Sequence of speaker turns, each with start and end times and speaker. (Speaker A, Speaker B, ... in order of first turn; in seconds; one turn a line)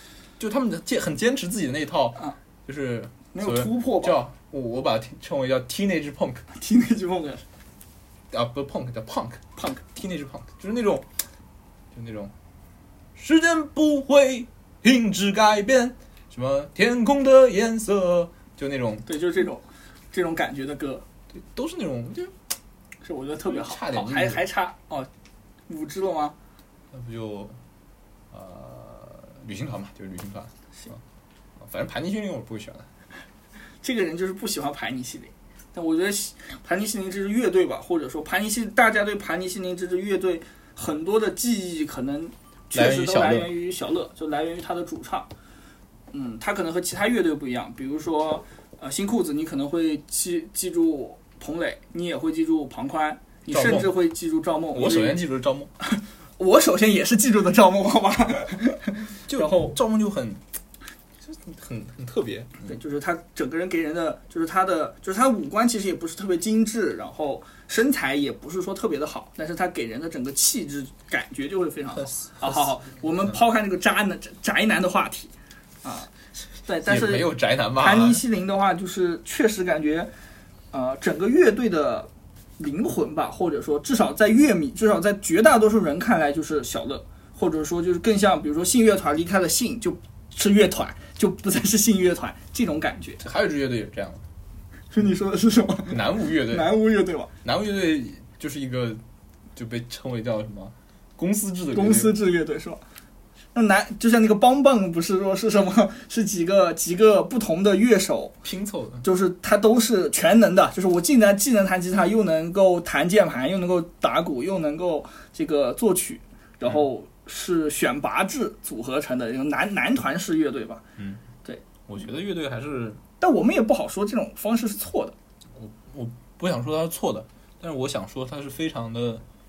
Speaker A: 0.4-6.5
Speaker B: 3.3-4.2
Speaker B: 6.5-7.4
Speaker A: 8.3-11.1
Speaker B: 9.6-9.8
Speaker A: 11.9-12.3
Speaker A: 13.2-19.1
Speaker B: 19.1-21.1
Speaker A: 21.3-22.3
Speaker B: 23.0-25.1
Speaker A: 23.5-24.4
Speaker B: 25.7-26.4
Speaker A: 26.9-27.6
Speaker A: 28.3-31.0
Speaker A: 31.6-32.9
Speaker B: 33.8-45.3
Speaker A: 42.7-43.5
Speaker B: 46.1-55.2
Speaker A: 53.5-53.9
Speaker A: 54.7-55.7
Speaker B: 55.9-59.7
Speaker A: 59.3-60.4
Speaker A: 61.2-62.7
Speaker B: 62.6-75.3
Speaker A: 72.0-73.4
Speaker B: 75.8-76.1
Speaker B: 76.6-80.1
Speaker A: 76.8-78.2
Speaker B: 80.7-93.2
Speaker A: 93.2-94.2
Speaker B: 94.9-97.3
Speaker A: 95.9-96.7
Speaker A: 97.4-99.0
Speaker A: 99.5-102.1
Speaker B: 101.7-102.8
Speaker B: 103.5-108.3
Speaker A: 108.4-109.0
Speaker B: 109.0-120.8
Speaker A: 121.0-121.2
Speaker A: 121.9-123.0
Speaker B: 123.2-125.2
Speaker A: 125.5-129.2